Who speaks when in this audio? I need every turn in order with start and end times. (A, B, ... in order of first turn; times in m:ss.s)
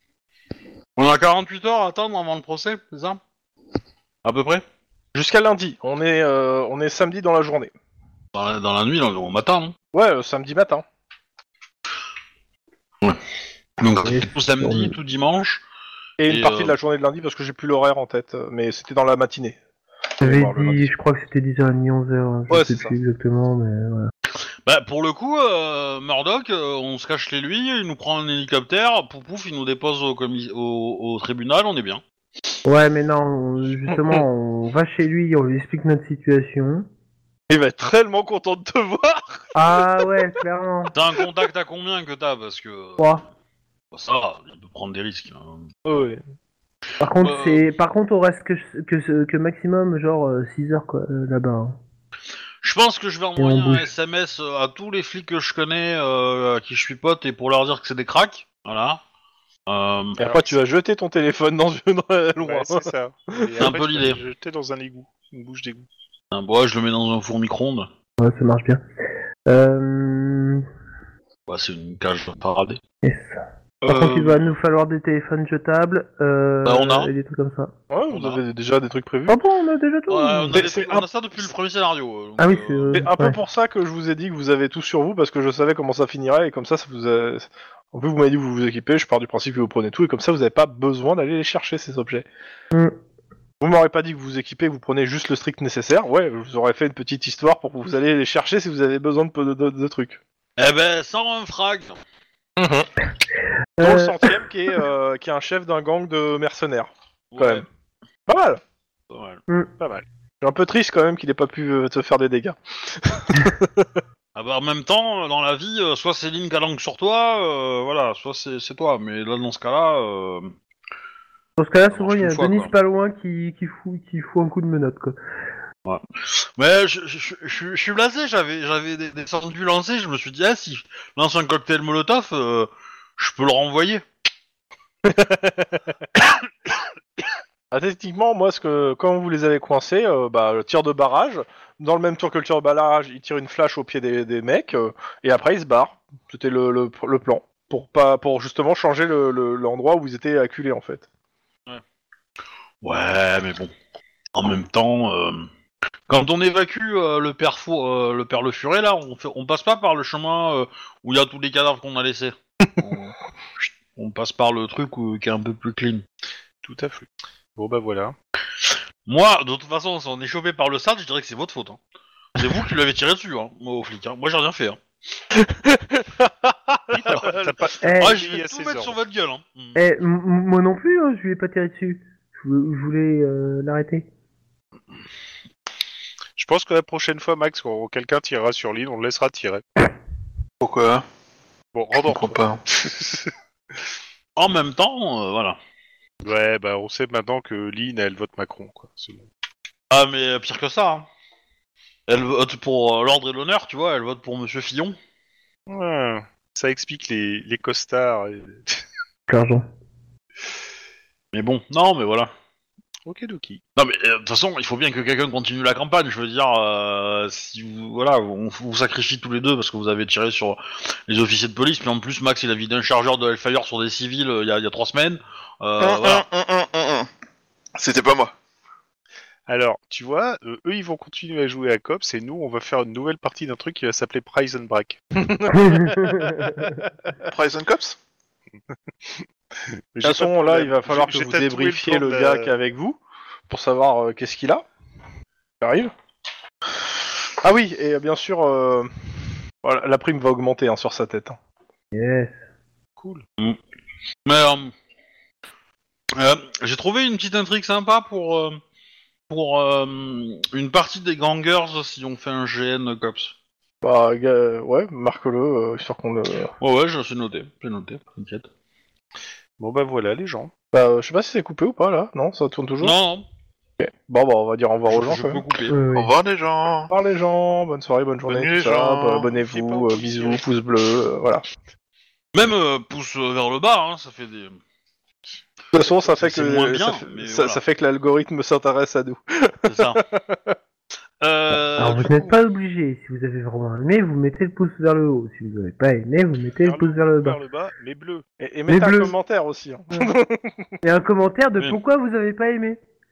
0:01.0-0:03.2 A
0:04.2-0:04.6 A
0:05.1-0:07.7 B
0:08.3-0:09.8 A
0:09.9-0:10.8 B
0:13.8-0:15.6 A
0:14.0-0:14.9 C
0:16.2-0:19.6 B
0:16.3-0:16.8 A
0:20.2-0:20.9 B
0:20.2-0:24.1 C
0:22.5-0:22.9 B
0:24.6-0:32.0 A
0:32.6-0:36.8 C
0:33.9-0:34.2 B
0:37.5-0:39.5 B
0:39.5-0:40.9 C
0:40.9-0:43.1 A
0:43.0-0:43.2 C
0:43.9-0:45.7 A
0:45.8-0:46.2 B
0:47.0-0:51.8 C
0:47.2-0:47.7 A
0:52.6-0:59.0 A
0:53.4-0:53.9 C
0:59.7-1:00.2 A
1:00.2-1:03.6 B
1:00.2-1:00.5 D
1:02.4-1:05.9 D
1:03.6-1:04.2 A
1:06.3-1:07.9 A
1:08.2-1:08.8 C
1:09.5-1:10.6 C
1:11.5-1:12.8 A
1:13.0-1:17.7 C
1:13.8-1:14.5 A
1:16.6-1:17.1 A
1:17.9-1:19.4 B
1:18.1-1:18.4 A
1:19.3-1:20.6 C
1:20.1-1:23.1 A
1:20.5-1:21.0 B
1:22.4-1:23.4 C
1:22.9-1:32.3 B
1:33.6-1:40.2 B
1:40.6-1:42.0 A
1:42.6-1:42.9 B
1:43.8-1:44.2 C
1:43.8-1:47.6 B
1:47.3-1:47.6 A
1:48.3-1:48.6 B
1:49.1-1:49.4 A
1:50.4-1:54.0 B
1:54.4-2:00.5 A
2:01.6-2:05.2 C
2:01.9-2:02.7 A
2:05.8-2:14.0 A
2:15.0-2:15.8 B
2:17.7-2:31.0 B
2:32.8-2:33.7 A
2:34.3-2:35.5 A
2:36.1-2:46.0 A
2:46.6-2:48.1 D
2:48.6-2:51.8 A
2:52.3-2:54.8 A
2:55.3-2:57.5 B
2:56.9-2:59.0 D
2:57.8-2:58.2 C
2:58.0-2:59.8 A
2:59.8-3:04.1 C
3:06.4-3:09.6 D
3:10.6-3:11.0 E
3:11.7-3:13.3 D
3:12.0-3:12.6 E
3:14.4-3:15.6 A
3:16.2-3:19.3 D
3:19.9-3:21.1 A
3:22.1-3:25.0 A
3:25.7-3:28.8 D
3:29.3-3:29.6 C
3:31.3-3:32.3 A
3:33.0-3:33.6 D
3:33.8-3:46.2 A
3:45.8-3:47.1 E
3:47.8-3:48.3 E
3:49.5-3:55.0 D
3:55.2-3:56.7 B
3:55.6-3:56.7 C
3:57.2-3:58.0 E
3:59.9-4:02.5 D
4:00.0-4:04.6 B
4:05.6-4:05.9 B
4:07.4-4:11.4 B
4:11.9-4:12.3 C
4:13.0-4:13.2 D
4:14.2-4:14.7 A
4:16.1-4:18.6 A
4:19.3-4:23.3 A
4:23.8-4:26.5 B
4:26.6-4:28.5 A
4:29.6-4:30.5 D
4:30.7-4:32.9 B
4:32.8-4:33.3 A
4:33.8-4:35.4 B
4:34.9-4:35.8 A
4:35.7-4:36.1 C
4:35.9-4:36.9 E
4:36.9-4:41.4 B
4:38.3-4:40.4 D
4:42.3-4:44.6 A
4:45.7-4:50.6 B
4:46.0-4:47.6 A
4:49.6-4:50.0 A
4:51.2-4:52.4 A
4:51.8-4:57.4 C
4:56.6-4:58.2 D
4:58.4-5:00.7 B
4:58.7-4:59.1 C
5:00.8-5:02.8 C